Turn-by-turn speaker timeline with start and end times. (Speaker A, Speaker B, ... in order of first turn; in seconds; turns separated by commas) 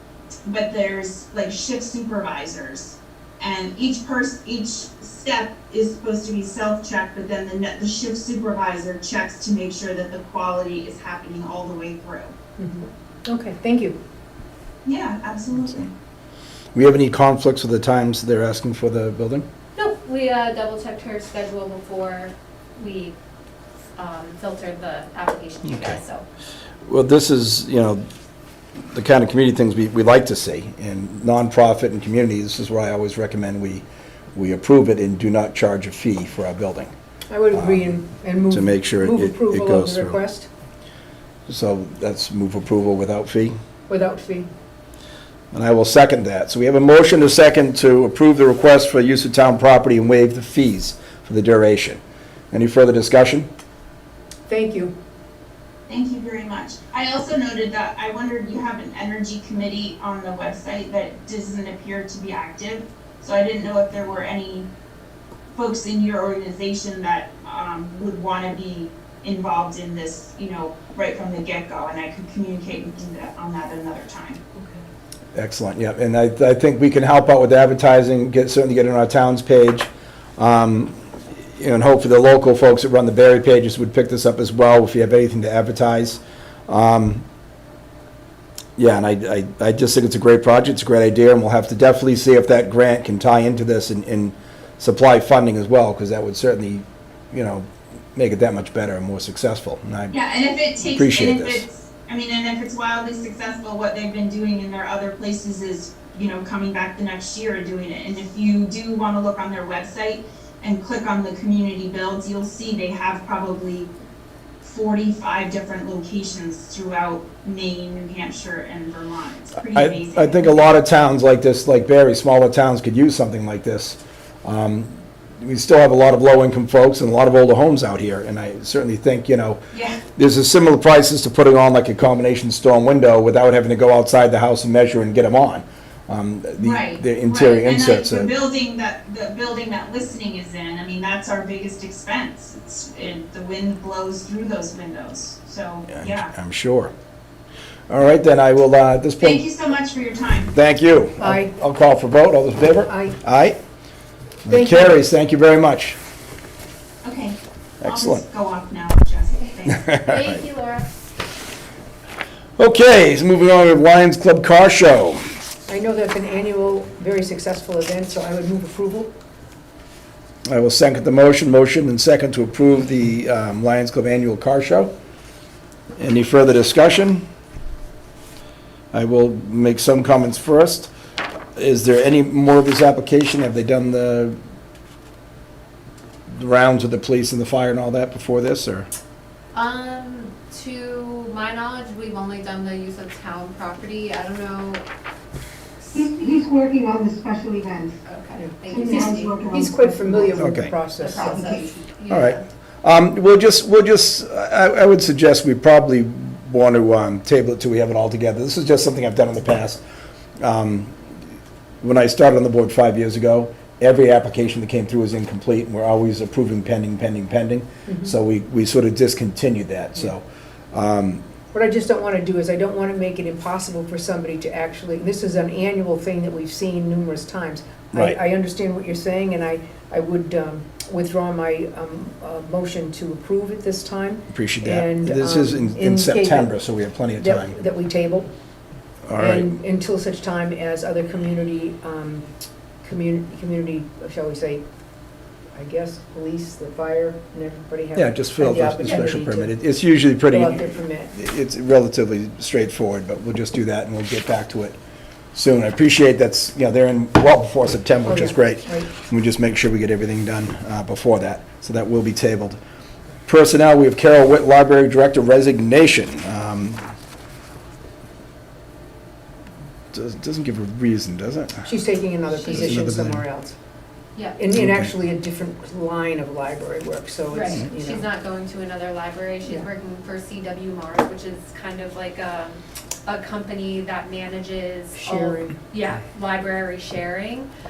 Speaker A: 0.5-12.3, Speaker B: 12.6-14.0, Speaker A: 14.8-15.9, Speaker C: 16.7-19.4, Speaker D: 19.8-23.1, Speaker D: 23.9-26.2, Speaker C: 25.6-26.0, Speaker C: 26.8-28.1, Speaker C: 28.9-36.9, Speaker B: 37.3-40.5, Speaker C: 37.5-37.9, Speaker C: 38.5-40.2, Speaker C: 41.5-43.5, Speaker B: 43.9-44.5, Speaker C: 45.5-52.0, Speaker C: 52.5-53.5, Speaker B: 54.5-54.9, Speaker A: 55.9-64.7, Speaker A: 65.5-74.4, Speaker C: 75.3-81.0, Speaker C: 81.5-87.2, Speaker C: 88.8-100.1, Speaker A: 100.1-113.9, Speaker C: 100.8-101.6, Speaker A: 114.6-120.7, Speaker C: 119.7-129.6, Speaker A: 129.7-130.0, Speaker C: 130.2-138.3, Speaker A: 136.6-146.3, Speaker C: 145.9-146.9, Speaker C: 147.9-149.4, Speaker A: 149.2-150.5, Speaker C: 150.5-153.6, Speaker B: 151.2-151.5, Speaker B: 152.8-153.2, Speaker C: 154.4-156.0, Speaker B: 154.5-154.9, Speaker A: 157.0-159.9, Speaker C: 157.8-158.2, Speaker C: 159.7-160.4, Speaker D: 160.0-160.9, Speaker C: 162.6-165.2, Speaker B: 165.7-169.1, Speaker C: 170.4-174.9, Speaker C: 176.0-177.2, Speaker C: 178.9-180.9, Speaker C: 181.6-184.4, Speaker C: 186.3-188.9, Speaker D: 189.5-194.8, Speaker E: 195.9-197.9, Speaker D: 198.1-199.4, Speaker B: 198.4-198.9, Speaker E: 198.6-200.5, Speaker B: 199.5-201.3, Speaker C: 200.3-200.7, Speaker D: 200.9-202.5, Speaker E: 201.1-201.7, Speaker C: 202.1-209.8, Speaker C: 210.4-210.9, Speaker C: 211.8-221.2, Speaker B: 217.9-218.1, Speaker B: 221.5-236.5, Speaker C: 227.9-228.2, Speaker C: 234.3-237.5, Speaker B: 237.2-238.3, Speaker C: 239.1-239.5, Speaker B: 239.2-242.2, Speaker B: 242.8-244.6, Speaker B: 245.5-249.5, Speaker C: 247.9-254.8, Speaker B: 250.3-251.1, Speaker C: 255.3-262.6, Speaker B: 258.1-258.9, Speaker C: 263.2-266.9, Speaker C: 269.9-271.7, Speaker B: 271.6-273.6, Speaker D: 272.3-272.8, Speaker C: 272.4-273.2, Speaker B: 274.4-278.0, Speaker C: 274.5-274.9, Speaker D: 277.3-287.5, Speaker B: 284.9-285.6